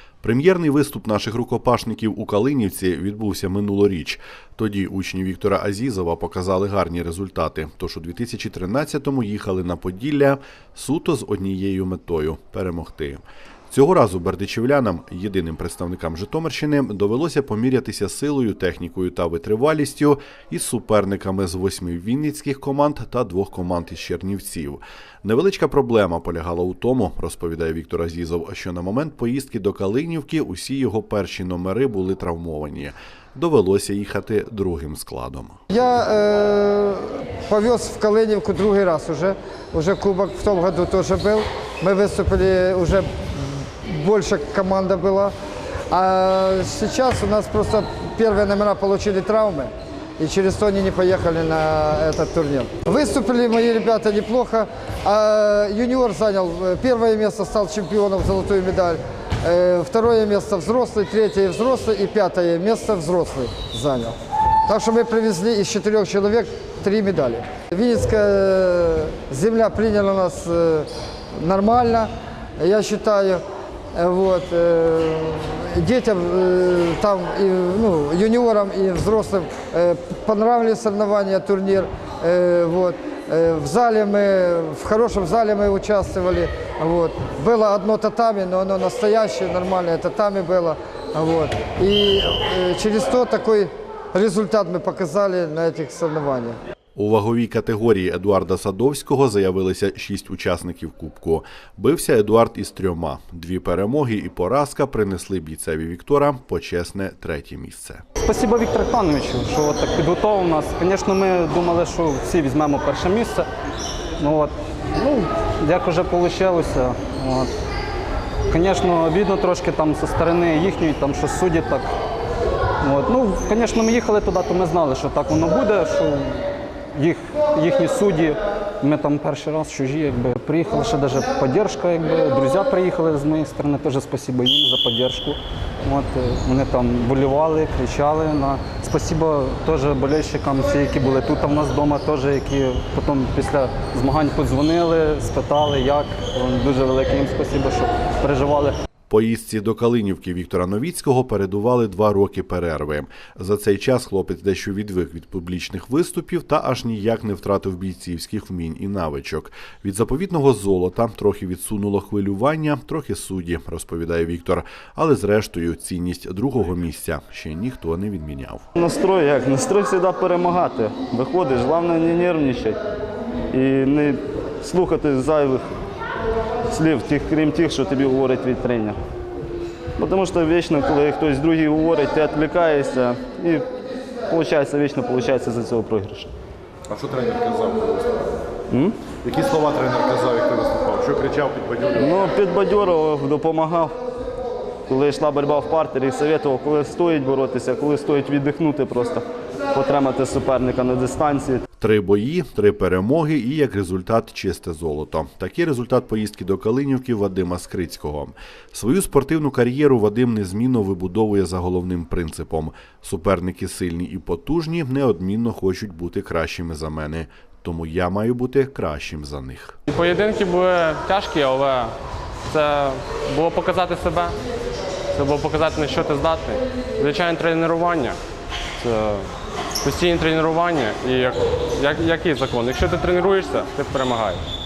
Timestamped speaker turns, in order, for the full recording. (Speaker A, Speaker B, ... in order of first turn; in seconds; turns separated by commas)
Speaker A: 0.2-35.6, Speaker B: 35.7-45.3, Speaker B: 45.9-64.2, Speaker B: 64.7-73.4, Speaker B: 73.9-96.6, Speaker A: 97.0-108.0, Speaker C: 108.2-113.5, Speaker C: 114.2-117.5, Speaker C: 118.5-121.9, Speaker C: 122.8-148.7, Speaker A: 149.1-168.7, Speaker D: 168.8-172.8, Speaker D: 173.5-175.8, Speaker D: 176.7-179.0, Speaker D: 180.0-183.7, Speaker D: 184.3-186.3, Speaker E: 186.9-188.1, Speaker D: 188.7-189.1, Speaker E: 189.2-191.9, Speaker D: 191.9-194.0, Speaker D: 194.9-201.6, Speaker A: 201.8-219.8, Speaker F: 219.9-221.9, Speaker F: 222.5-224.3, Speaker F: 225.1-228.2, Speaker F: 228.8-229.3, Speaker F: 229.8-234.4